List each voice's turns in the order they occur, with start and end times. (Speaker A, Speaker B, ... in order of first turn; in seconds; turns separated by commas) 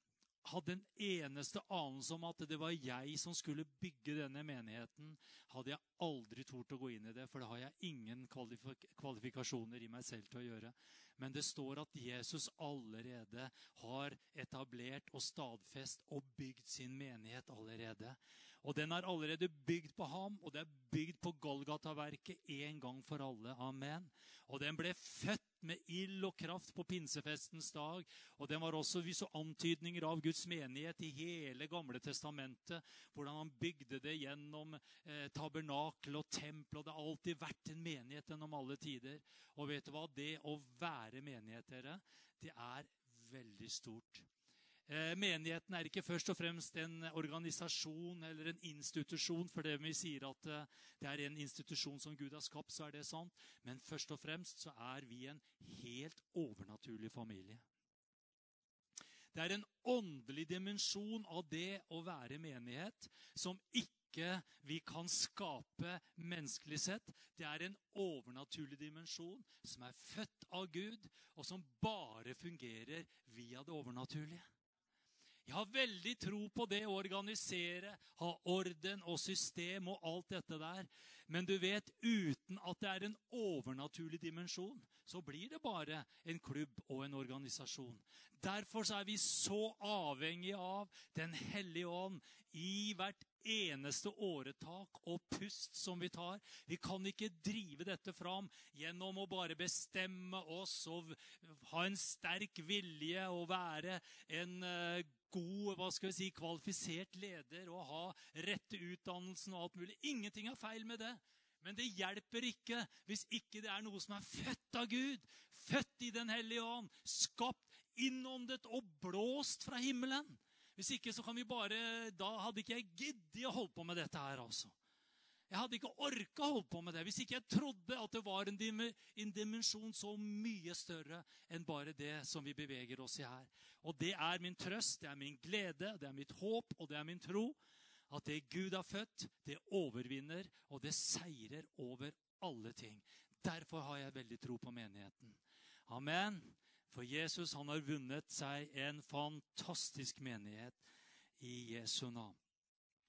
Speaker A: 0.4-44.3, Speaker A: 44.9-57.6, Speaker A: 59.3-74.4, Speaker A: 75.5-124.8, Speaker A: 125.5-137.6, Speaker A: 138.1-150.8, Speaker A: 151.4-152.4